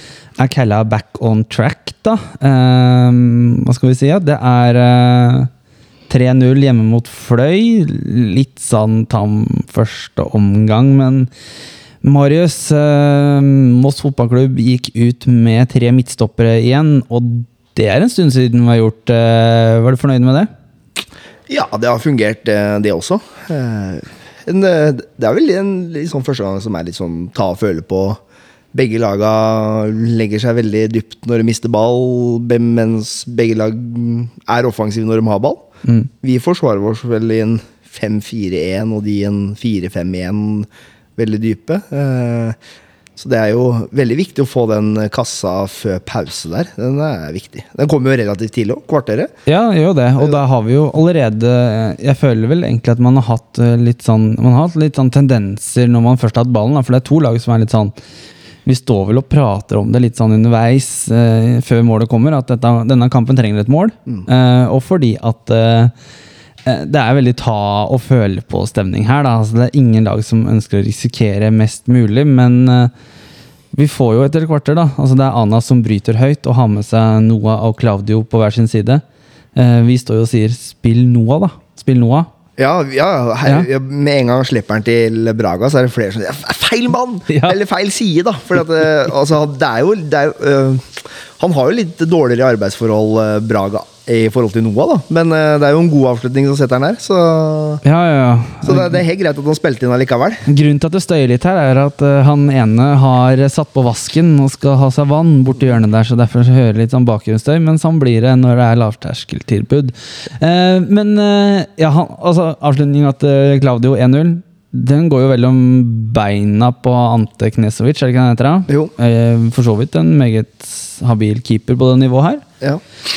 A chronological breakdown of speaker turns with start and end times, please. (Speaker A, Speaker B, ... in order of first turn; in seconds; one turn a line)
Speaker A: 0.4-5.5
Speaker A: 6.1-11.3
Speaker A: 12.0-20.5
Speaker B: 21.5-28.2
Speaker B: 28.7-35.6
Speaker B: 36.2-42.6
Speaker B: 43.2-49.3
Speaker A: 49.5-57.9
Speaker A: 58.6-65.9
Speaker A: 66.7-72.9
Speaker A: 73.7-79.0
Speaker A: 79.5-82.3
Speaker B: 82.6-97.8
Speaker A: 87.3-87.5
Speaker A: 97.8-99.0
Speaker B: 98.6-100.4
Speaker A: 100.5-122.4